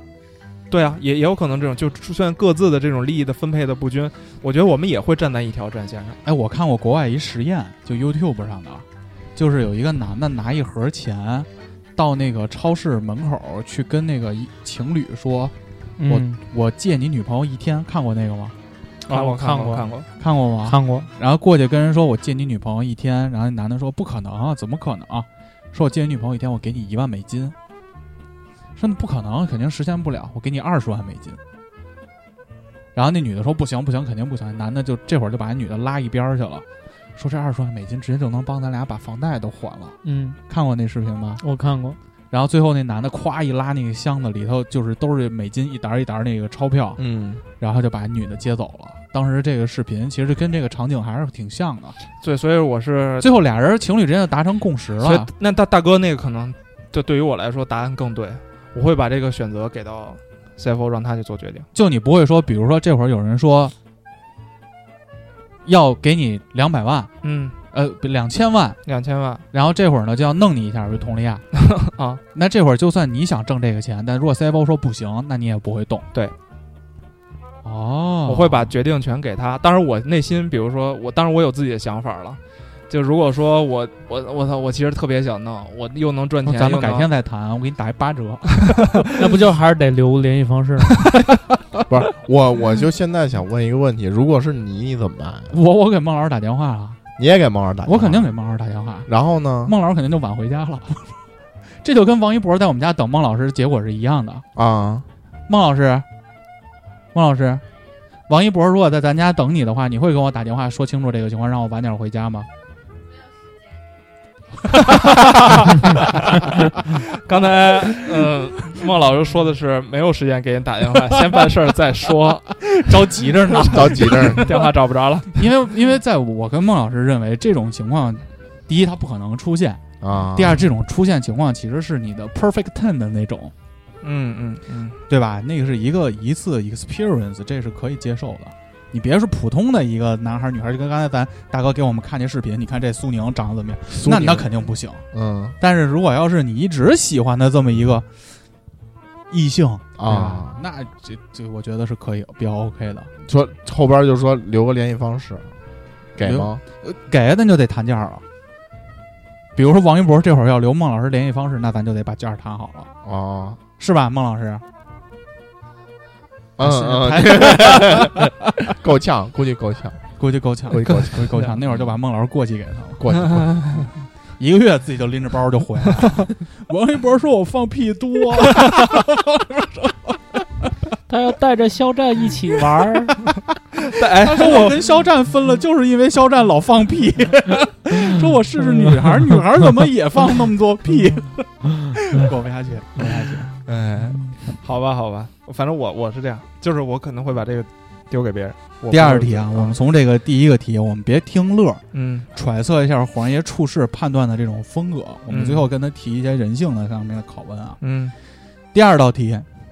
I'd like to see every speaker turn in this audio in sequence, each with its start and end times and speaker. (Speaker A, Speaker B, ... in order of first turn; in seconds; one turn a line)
Speaker A: 0.7-6.2
Speaker B: 6.2-15.5
Speaker C: 16.0-16.4
Speaker B: 16.1-18.6
Speaker A: 19.1-20.1
Speaker C: 19.1-19.9
Speaker B: 20.2-27.6
Speaker C: 20.6-21.1
Speaker B: 28.8-31.4
Speaker B: 33.0-36.6
Speaker B: 37.2-40.0
Speaker C: 40.0-40.4
Speaker B: 40.5-41.4
Speaker C: 41.4-42.0
Speaker B: 42.3-47.0
Speaker B: 47.6-52.0
Speaker A: 52.2-53.4
Speaker B: 53.2-55.3
Speaker A: 55.0-61.7
Speaker B: 61.7-63.8
Speaker B: 65.7-67.1
Speaker A: 67.2-67.6
Speaker B: 67.7-68.8
Speaker A: 68.9-69.4
Speaker B: 69.5-71.5
Speaker A: 71.7-72.2
Speaker B: 72.3-76.1
Speaker B: 77.6-78.7
Speaker A: 78.3-87.1
Speaker B: 86.4-89.1
Speaker A: 88.6-89.1
Speaker C: 89.2-90.9
Speaker D: 91.9-95.5
Speaker B: 95.5-97.0
Speaker D: 97.2-98.3
Speaker B: 97.8-99.1
Speaker D: 99.1-99.7
Speaker B: 99.6-101.2
Speaker B: 101.8-104.5
Speaker D: 104.6-105.1
Speaker B: 105.5-106.1
Speaker B: 107.1-107.6
Speaker B: 108.3-112.5
Speaker A: 114.7-125.5
Speaker B: 122.7-124.5
Speaker D: 123.7-124.5
Speaker B: 125.3-129.8
Speaker D: 130.0-130.6
Speaker B: 130.3-133.5
Speaker A: 134.0-135.0
Speaker B: 135.1-145.1
Speaker D: 143.9-144.5
Speaker D: 145.1-145.6
Speaker B: 145.6-148.1
Speaker B: 149.3-153.1
Speaker D: 150.0-150.6
Speaker D: 153.2-155.5
Speaker D: 156.2-156.6
Speaker B: 156.2-158.2
Speaker B: 159.6-162.9
Speaker D: 163.0-163.6
Speaker B: 163.8-164.6
Speaker D: 166.6-170.0
Speaker B: 166.6-168.4
Speaker B: 170.2-173.1
Speaker D: 170.7-171.8
Speaker D: 173.0-173.9
Speaker A: 173.4-173.8
Speaker B: 174.4-180.2
Speaker C: 181.1-183.2
Speaker A: 183.8-184.8
Speaker B: 184.1-193.5
Speaker A: 193.1-199.8
Speaker B: 198.9-201.8
Speaker A: 201.9-202.3
Speaker B: 202.3-207.8
Speaker A: 205.3-205.7
Speaker A: 207.8-208.2
Speaker B: 208.7-209.5